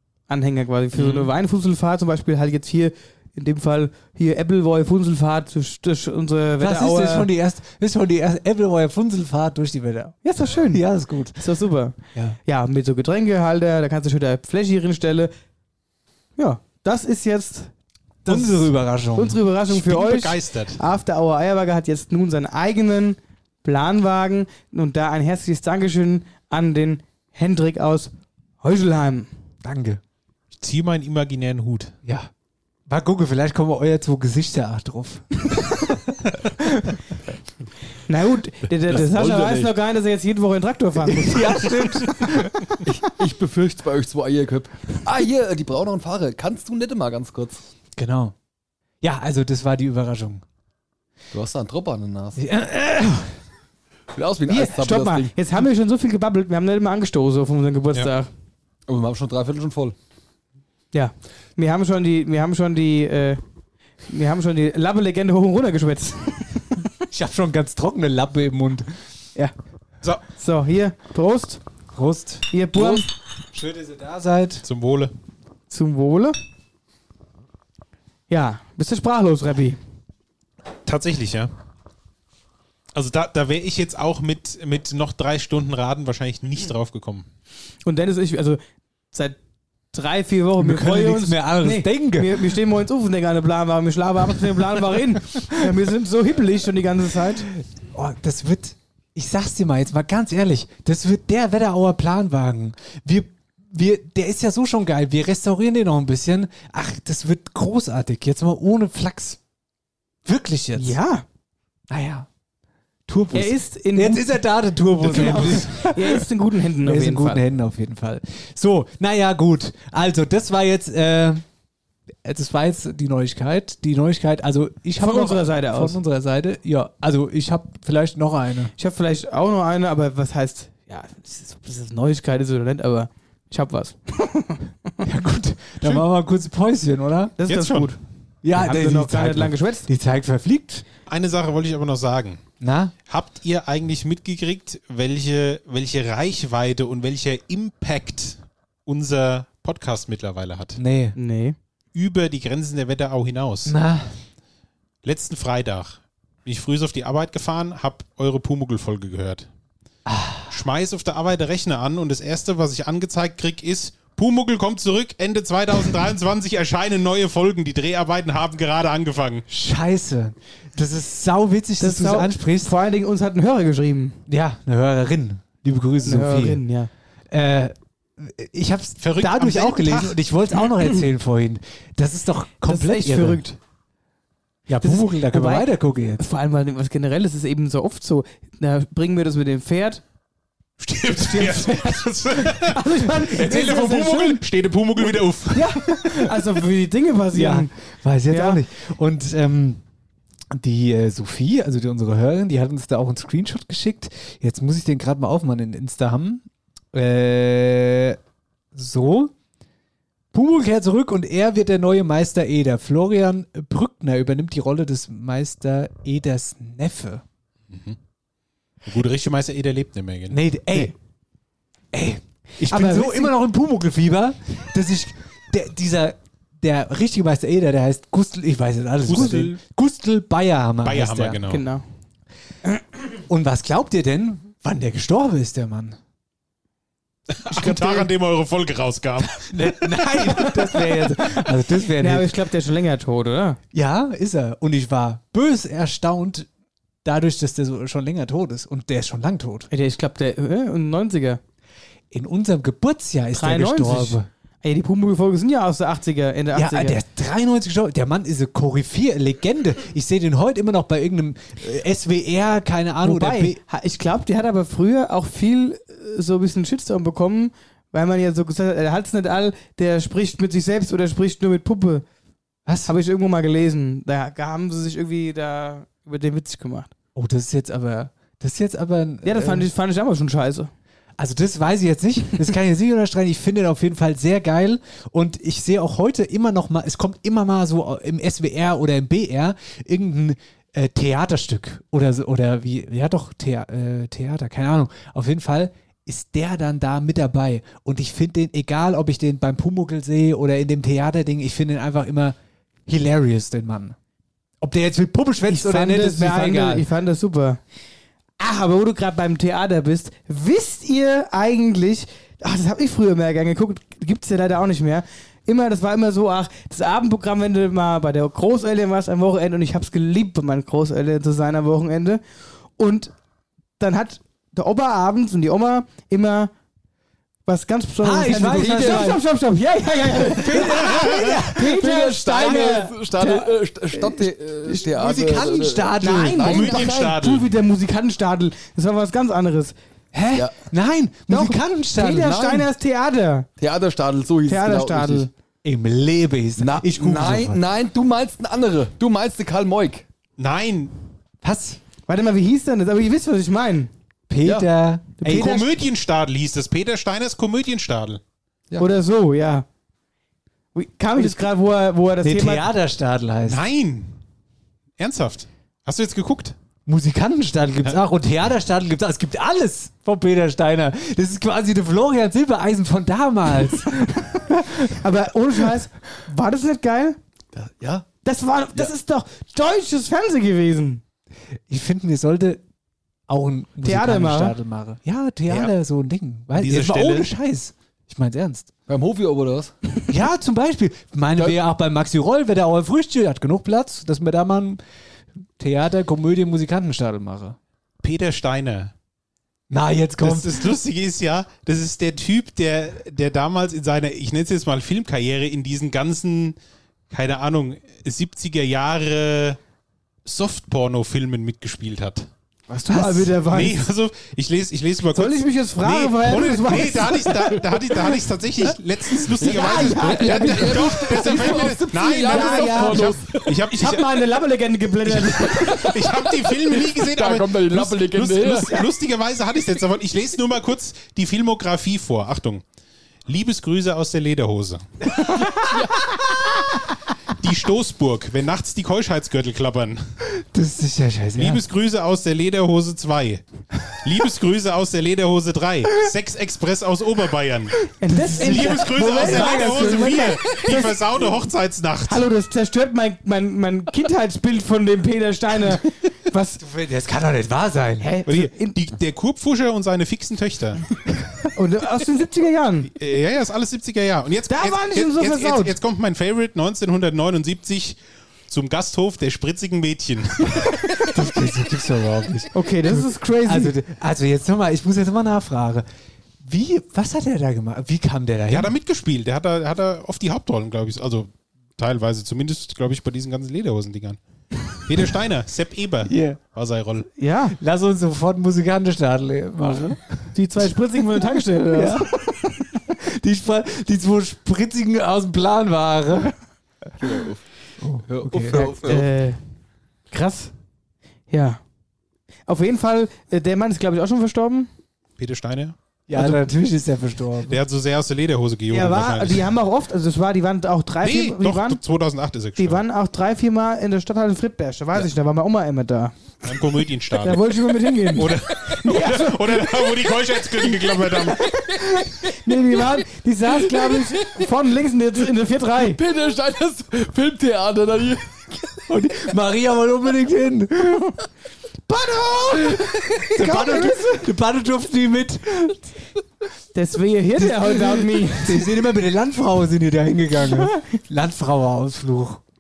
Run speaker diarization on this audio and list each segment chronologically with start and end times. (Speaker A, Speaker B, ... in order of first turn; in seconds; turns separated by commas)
Speaker A: 0.3-7.3, Speaker B: 0.9-1.3, Speaker C: 6.6-10.2, Speaker A: 10.2-10.8, Speaker C: 10.7-11.4, Speaker A: 11.3-15.3, Speaker A: 16.4-17.7, Speaker A: 18.2-29.3, Speaker C: 18.3-19.4, Speaker B: 19.7-20.8, Speaker C: 29.6-30.0, Speaker B: 30.6-31.9, Speaker C: 32.0-32.3, Speaker C: 32.9-35.9, Speaker C: 36.6-37.0, Speaker A: 38.1-42.4, Speaker D: 38.9-39.7, Speaker C: 41.0-42.5, Speaker D: 42.9-47.6, Speaker C: 48.0-48.3, Speaker C: 49.0-50.4, Speaker D: 51.3-52.4, Speaker C: 52.4-53.3, Speaker D: 54.1-55.3, Speaker A: 54.5-58.3, Speaker D: 58.9-59.9, Speaker A: 60.9-63.4, Speaker A: 64.1-66.9, Speaker C: 67.1-68.9, Speaker A: 70.3-71.6, Speaker C: 71.9-74.6, Speaker A: 72.5-73.1, Speaker B: 74.6-75.1, Speaker A: 75.7-76.4, Speaker A: 78.3-79.8, Speaker B: 80.9-81.5, Speaker B: 82.9-87.3, Speaker A: 87.8-88.6, Speaker A: 89.1-89.4, Speaker A: 89.9-97.5, Speaker C: 90.6-92.5, Speaker C: 97.5-109.4, Speaker C: 110.2-111.0, Speaker A: 110.8-111.2, Speaker C: 111.9-112.3, Speaker C: 113.1-116.2, Speaker A: 113.3-114.4, Speaker A: 115.0-117.4, Speaker C: 116.8-121.4, Speaker C: 122.2-128.7, Speaker A: 125.0-126.0, Speaker A: 128.8-134.6, Speaker C: 135.0-137.3, Speaker A: 137.4-138.0, Speaker B: 137.5-137.9, Speaker C: 138.4-140.8, Speaker A: 138.5-139.9, Speaker B: 141.1-142.4, Speaker C: 142.6-142.9, Speaker B: 143.1-150.8, Speaker C: 150.8-151.2, Speaker A: 151.2-151.6, Speaker B: 151.9-153.7, Speaker C: 153.7-154.1, Speaker B: 155.0-159.5, Speaker C: 160.1-160.5, Speaker B: 160.5-169.4, Speaker C: 169.5-172.7, Speaker A: 171.8-174.2, Speaker C: 174.3-176.6, Speaker A: 176.0-176.9, Speaker C: 177.3-183.4, Speaker B: 179.0-180.2, Speaker A: 182.6-183.6, Speaker C: 184.7-186.2, Speaker A: 184.8-190.0, Speaker B: 190.8-196.2, Speaker A: 191.2-194.4, Speaker A: 195.5-197.7, Speaker C: 197.3-199.8, Speaker A: 198.3-198.6, Speaker C: 200.5-208.2, Speaker C: 208.7-209.3, Speaker C: 210.3-217.2, Speaker B: 217.7-218.0, Speaker B: 218.8-220.8, Speaker C: 220.3-220.9, Speaker C: 221.9-231.4, Speaker A: 222.6-223.3, Speaker B: 229.1-229.6, Speaker A: 229.1-229.5, Speaker B: 230.8-231.7, Speaker A: 231.5-231.8, Speaker C: 233.3-236.0, Speaker B: 237.3-239.5, Speaker A: 237.5-238.1, Speaker C: 239.4-242.3, Speaker A: 240.2-240.8, Speaker A: 242.0-243.6, Speaker C: 243.7-246.5, Speaker C: 247.0-249.7, Speaker A: 249.7-251.4, Speaker C: 252.1-254.3, Speaker A: 253.4-257.0, Speaker C: 256.5-263.6, Speaker A: 263.0-272.1, Speaker C: 272.6-272.9, Speaker A: 272.9-276.9, Speaker C: 277.1-279.7, Speaker A: 279.2-280.7, Speaker C: 281.2-302.4, Speaker C: 302.9-303.9, Speaker C: 304.6-306.9, Speaker A: 305.5-307.6, Speaker A: 308.4-322.2, Speaker A: 322.8-323.1, Speaker A: 323.8-326.5, Speaker A: 327.5-333.5, Speaker C: 328.0-329.2, Speaker D: 328.6-329.2, Speaker C: 330.2-332.6, Speaker B: 331.0-331.3, Speaker D: 331.7-336.7, Speaker C: 334.8-336.8, Speaker A: 336.0-339.7, Speaker B: 336.4-337.5, Speaker C: 340.1-342.4, Speaker A: 341.3-343.5, Speaker D: 342.3-342.6, Speaker D: 343.6-345.3, Speaker A: 344.4-345.3, Speaker C: 345.6-347.6, Speaker D: 346.6-350.1, Speaker B: 350.4-350.9, Speaker C: 351.4-351.8, Speaker A: 352.1-353.9, Speaker C: 354.3-355.6, Speaker A: 355.2-355.7, Speaker B: 355.2-358.2, Speaker A: 358.8-359.6, Speaker A: 360.7-362.7, Speaker C: 362.2-363.6, Speaker B: 363.5-364.1, Speaker B: 365.0-366.6, Speaker C: 366.9-374.9, Speaker A: 374.9-377.2, Speaker D: 377.6-378.1, Speaker A: 378.2-381.0, Speaker C: 381.7-382.6, Speaker C: 383.3-388.7, Speaker A: 383.8-384.6, Speaker B: 386.6-387.3, Speaker D: 388.9-389.7, Speaker C: 390.1-394.8, Speaker C: 395.6-397.6, Speaker B: 398.0-398.9, Speaker C: 399.7-400.8, Speaker B: 400.2-406.6, Speaker B: 407.1-409.6, Speaker B: 410.2-412.3, Speaker A: 412.7-413.9, Speaker C: 412.8-413.4, Speaker B: 413.5-424.2, Speaker A: 415.1-417.6, Speaker A: 419.4-421.3, Speaker D: 419.4-423.7, Speaker A: 422.2-425.9, Speaker B: 425.1-432.6, Speaker D: 425.5-428.8, Speaker B: 433.3-434.8, Speaker D: 435.4-436.1, Speaker B: 437.4-440.0, Speaker C: 440.4-441.6, Speaker B: 441.4-443.4, Speaker B: 443.9-452.2, Speaker A: 448.0-451.0, Speaker C: 448.4-450.3, Speaker A: 452.1-456.6, Speaker C: 456.6-458.1, Speaker A: 458.0-458.7, Speaker B: 458.3-460.8, Speaker A: 461.6-462.9, Speaker B: 462.9-468.0, Speaker A: 464.5-465.8, Speaker B: 468.5-470.8, Speaker C: 471.0-475.9, Speaker A: 472.5-473.8, Speaker C: 476.4-478.7, Speaker B: 478.5-484.2, Speaker B: 484.8-487.1, Speaker C: 486.1-486.4, Speaker A: 487.2-487.6, Speaker C: 487.6-490.3, Speaker A: 490.4-492.2, Speaker C: 491.7-492.2, Speaker C: 493.0-496.3, Speaker D: 497.0-497.4, Speaker C: 497.8-498.7, Speaker D: 498.1-499.1, Speaker A: 498.8-499.4, Speaker A: 500.1-500.5, Speaker A: 501.3-501.6, Speaker A: 502.5-504.7, Speaker B: 505.2-505.7, Speaker C: 506.1-507.6, Speaker A: 506.1-506.4, Speaker B: 507.5-509.5, Speaker A: 508.7-511.8, Speaker B: 511.0-512.8, Speaker A: 512.6-516.1, Speaker B: 516.4-517.5, Speaker A: 517.2-518.3, Speaker B: 518.1-521.5, Speaker A: 518.9-519.5, Speaker A: 522.0-526.0, Speaker D: 523.9-524.2, Speaker D: 525.9-528.7, Speaker C: 528.9-531.1, Speaker A: 531.9-534.2, Speaker C: 533.2-535.7, Speaker A: 536.7-538.6, Speaker C: 537.4-542.4